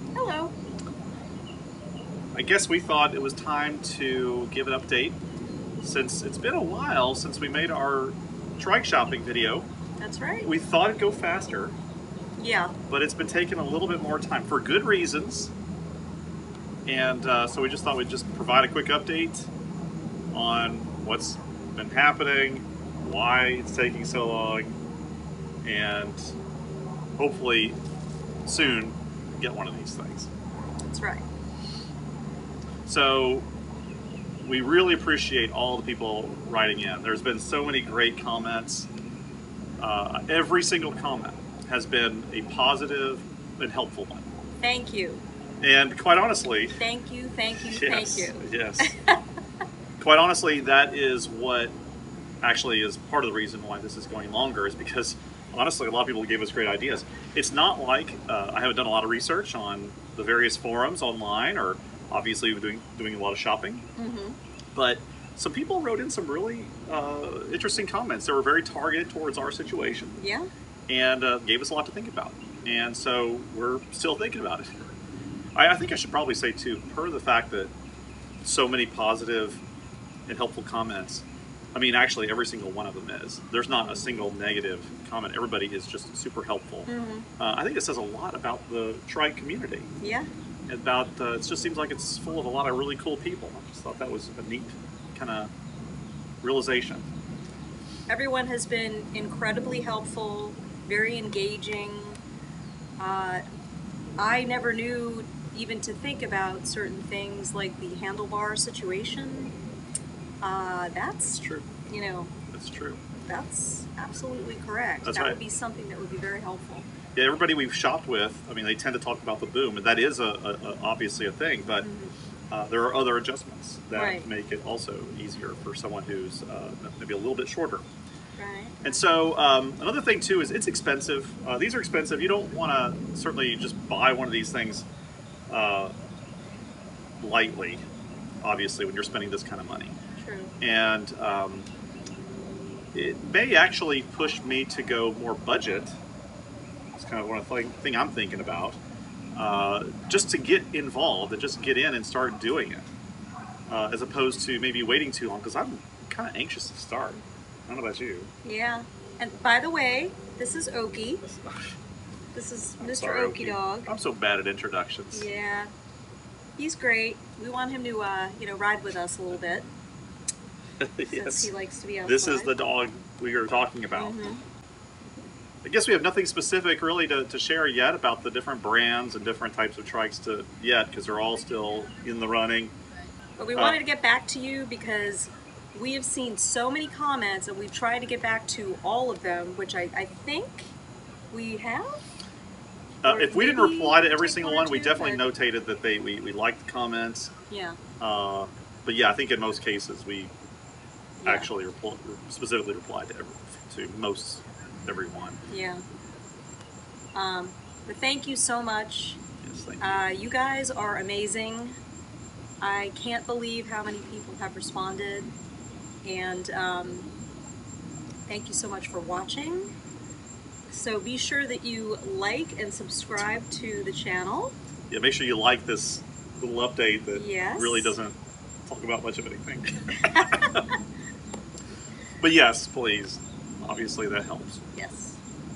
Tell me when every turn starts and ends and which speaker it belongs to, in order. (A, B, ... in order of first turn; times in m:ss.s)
0:00.2-0:00.5 A
0:02.3-0:05.2 B
0:05.8-0:09.7 B
0:10.0-0:10.5 A
0:10.4-0:11.8 B
0:12.4-0:12.8 A
0:12.9-0:15.5 B
0:16.9-0:19.5 B
0:20.3-0:24.8 B
0:25.6-0:26.3 B
0:27.2-0:27.8 B
0:28.5-0:30.3 B
0:30.9-0:31.2 A
0:32.9-0:33.5 B
0:34.4-0:38.9 B
0:39.8-0:44.3 B
0:44.6-0:45.2 A
0:45.6-0:46.8 B
0:46.8-0:49.2 A
0:47.7-0:48.9 B
0:50.0-0:51.8 B
0:52.4-1:03.8 B
1:04.0-1:04.4 A
1:04.8-1:10.2 B
1:10.2-1:10.5 A
1:10.9-1:14.7 B
1:15.6-1:17.7 B
1:18.4-1:19.6 B
1:20.3-1:21.2 B
1:21.8-1:29.9 B
1:26.9-1:27.3 A
1:30.0-1:30.3 A
1:30.7-1:35.5 B
1:36.4-1:37.1 B
1:38.1-1:42.2 A
1:43.0-1:43.4 A
1:44.2-1:49.6 A
1:50.4-1:52.3 A
1:51.2-1:51.7 B
1:52.5-1:53.0 B
1:53.3-1:56.9 A
1:55.0-1:55.4 B
1:57.1-2:01.9 B
2:01.8-2:02.1 A
2:02.5-2:07.8 B
2:03.9-2:04.3 A
2:08.4-2:09.0 A
2:08.8-2:14.9 B
2:15.5-2:15.9 B
2:17.2-2:17.8 B
2:18.4-2:20.0 B
2:20.2-2:20.6 A
2:20.6-2:21.7 B
2:22.9-2:26.0 B
2:27.0-2:28.8 B
2:29.4-2:32.9 B
2:33.7-2:38.3 B
2:38.4-2:41.2 A
2:41.3-2:41.8 B
2:42.4-2:43.9 A
2:42.8-2:45.3 B
2:45.1-2:45.7 A
2:46.6-2:49.7 A
2:50.8-2:51.5 B
2:51.1-2:52.5 A
2:52.0-2:54.3 B
2:53.9-2:54.4 A
2:55.6-3:02.7 B
3:03.4-3:10.7 A
3:11.3-3:12.0 A
3:13.0-3:17.3 B
3:13.1-3:15.2 A
3:17.5-3:17.8 A
3:18.0-3:20.3 B
3:21.2-3:21.5 A
3:21.2-3:25.4 B
3:25.5-3:25.8 A
3:27.2-3:29.2 A
3:29.4-3:30.0 B
3:29.8-3:31.8 A
3:32.6-3:35.3 A
3:36.0-3:37.1 A
3:38.3-3:39.7 A
3:40.7-3:44.6 A
3:44.9-3:50.6 B
3:47.1-3:47.9 A
3:50.1-3:50.6 A
3:52.2-3:54.6 B
3:54.8-3:55.2 A